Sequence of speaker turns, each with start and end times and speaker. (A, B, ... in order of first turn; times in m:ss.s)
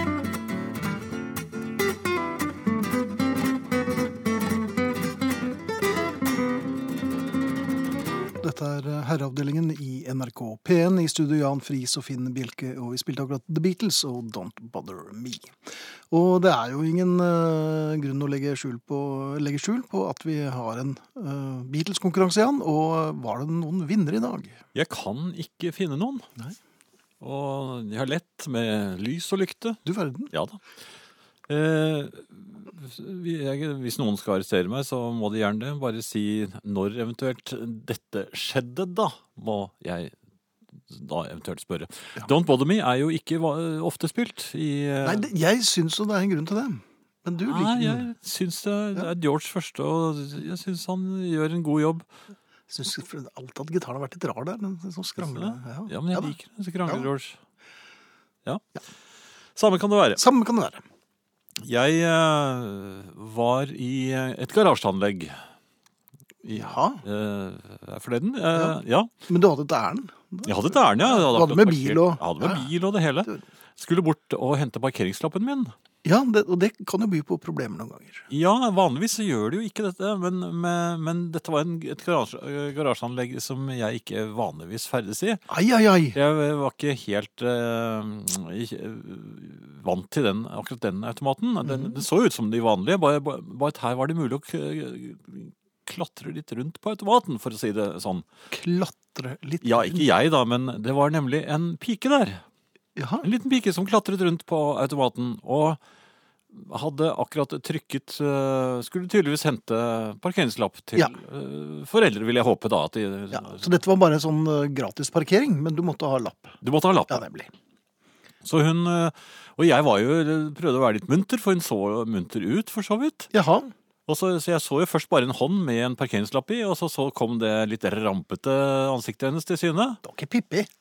0:08.4-0:15.6 A
0:16.1-0:24.6 A
0:24.8-0:26.3 B
0:27.2-0:29.8 B
0:29.9-0:30.3 A
0:30.3-0:30.6 B
0:31.5-0:40.1 B
0:40.9-0:45.3 B
0:45.0-0:48.1 A
0:47.5-0:52.1 B
0:52.7-0:56.4 A
0:55.2-0:57.4 B
0:59.6-1:00.2 B
1:00.2-1:00.8 A
1:01.6-1:05.4 B
1:06.4-1:09.1 B
1:06.5-1:07.0 A
1:08.5-1:12.7 A
1:10.5-1:15.7 B
1:16.0-1:18.3 A
1:18.3-1:25.4 B
1:25.5-1:26.2 A
1:26.1-1:38.3 B
1:31.6-1:32.0 A
1:38.5-1:40.1 A
1:39.6-1:42.4 B
1:43.0-1:43.3 A
1:43.2-1:45.8 B
1:46.5-1:53.7 B
1:53.3-1:56.6 A
1:56.6-1:57.2 B
1:57.1-1:57.5 A
1:58.4-2:03.3 B
2:03.3-2:03.7 A
2:04.1-2:10.0 B
2:10.0-2:10.7 A